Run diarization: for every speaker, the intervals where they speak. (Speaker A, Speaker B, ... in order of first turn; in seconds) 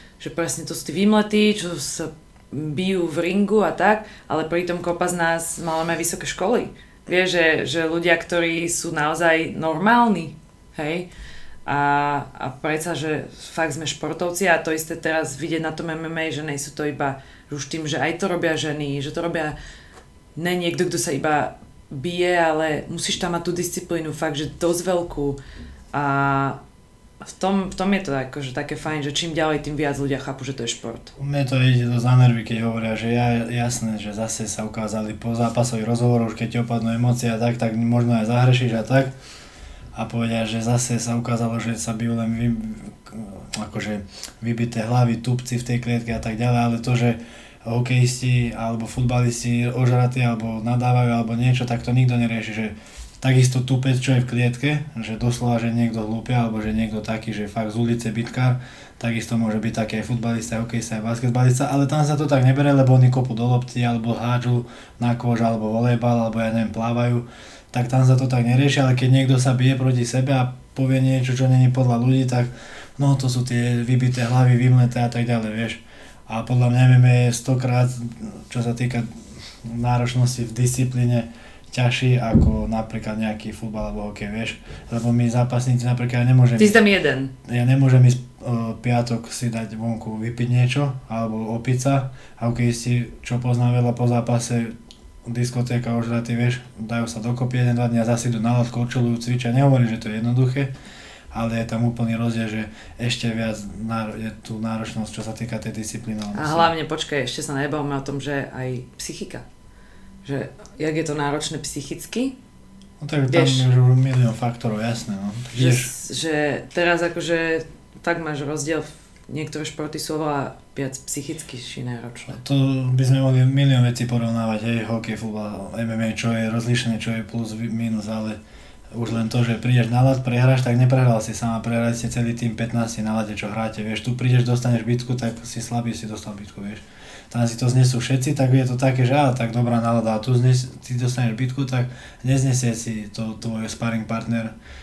Speaker A: 0.2-11.1, 11.7-19.6, 20.4-25.4, 25.9-26.6, 27.2-31.1, 86.6-87.3, 106.3-109.5, 110.2-112.4, 113.3-113.7, 115.5-122.4
Speaker B: 31.2-39.1, 39.9-86.8, 87.5-100.7, 101.3-106.7, 113.0-115.9, 122.3-128.4, 128.9-144.6